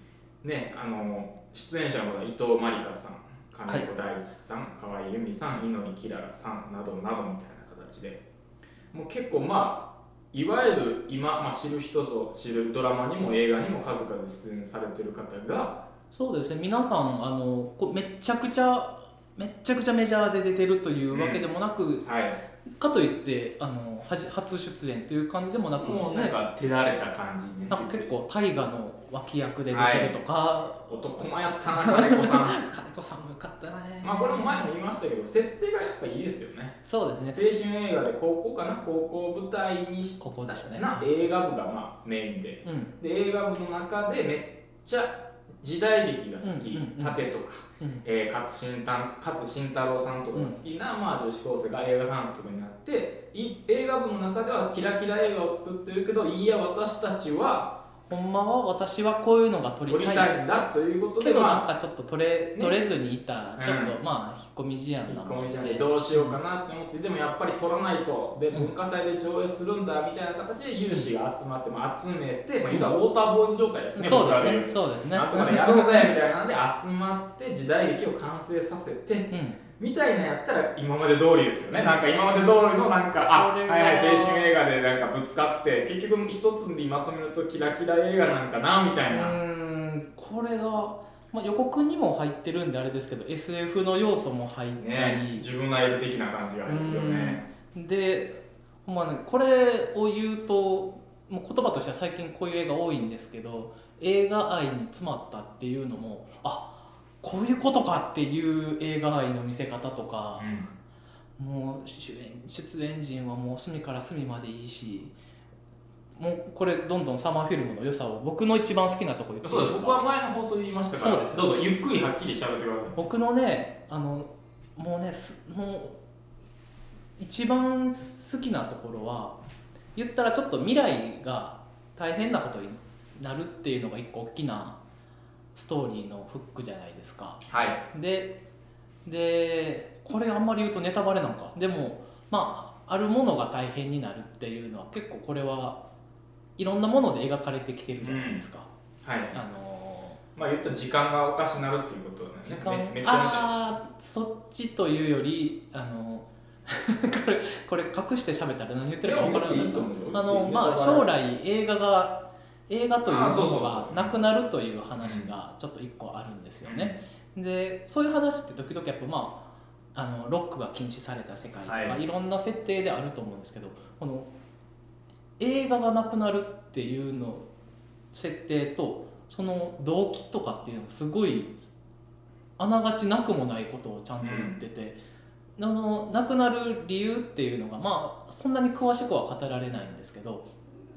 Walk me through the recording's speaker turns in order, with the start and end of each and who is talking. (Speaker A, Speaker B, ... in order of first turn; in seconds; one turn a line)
Speaker A: 0.4-8.2
Speaker A: 8.9-15.8
Speaker B: 16.1-22.1
Speaker A: 21.1-21.4
Speaker A: 22.0-22.4
Speaker B: 22.8-26.4
Speaker A: 25.8-28.1
Speaker B: 27.7-34.7
Speaker A: 29.7-30.1
Speaker A: 30.9-32.6
Speaker A: 34.0-36.8
Speaker B: 36.8-37.4
Speaker A: 37.3-57.8
Speaker B: 40.2-41.1
Speaker B: 42.6-42.9
Speaker B: 46.4-47.2
Speaker B: 58.1-60.3
Speaker A: 59.9-61.6
Speaker B: 61.2-66.4
Speaker A: 63.6-64.0
Speaker A: 65.1-89.4
Speaker B: 74.0-76.1
Speaker B: 79.3-79.6
Speaker B: 81.7-82.0
Speaker B: 83.2-84.5
Speaker B: 89.1-95.5
Speaker A: 94.8-97.5
Speaker B: 96.7-110.5
Speaker A: 110.4-110.7
Speaker B: 111.4-115.2
Speaker B: 116.2-120.0
Speaker A: 119.4-123.0
Speaker B: 121.0-121.6
Speaker B: 123.0-126.0
Speaker B: 127.2-129.4
Speaker B: 129.9-134.8
Speaker B: 135.5-138.4
Speaker A: 137.5-137.8
Speaker B: 139.1-145.8
Speaker B: 146.6-148.7
Speaker A: 148.0-148.4
Speaker A: 149.0-149.4
Speaker B: 149.3-150.2
Speaker A: 150.4-153.7
Speaker B: 152.4-174.3
Speaker A: 159.0-161.1
Speaker A: 163.1-164.1
Speaker A: 165.0-165.3
Speaker A: 166.6-167.0
Speaker A: 171.7-172.0
Speaker B: 175.4-177.5
Speaker B: 178.1-181.5
Speaker B: 182.6-185.0
Speaker A: 184.2-184.6
Speaker B: 185.6-190.5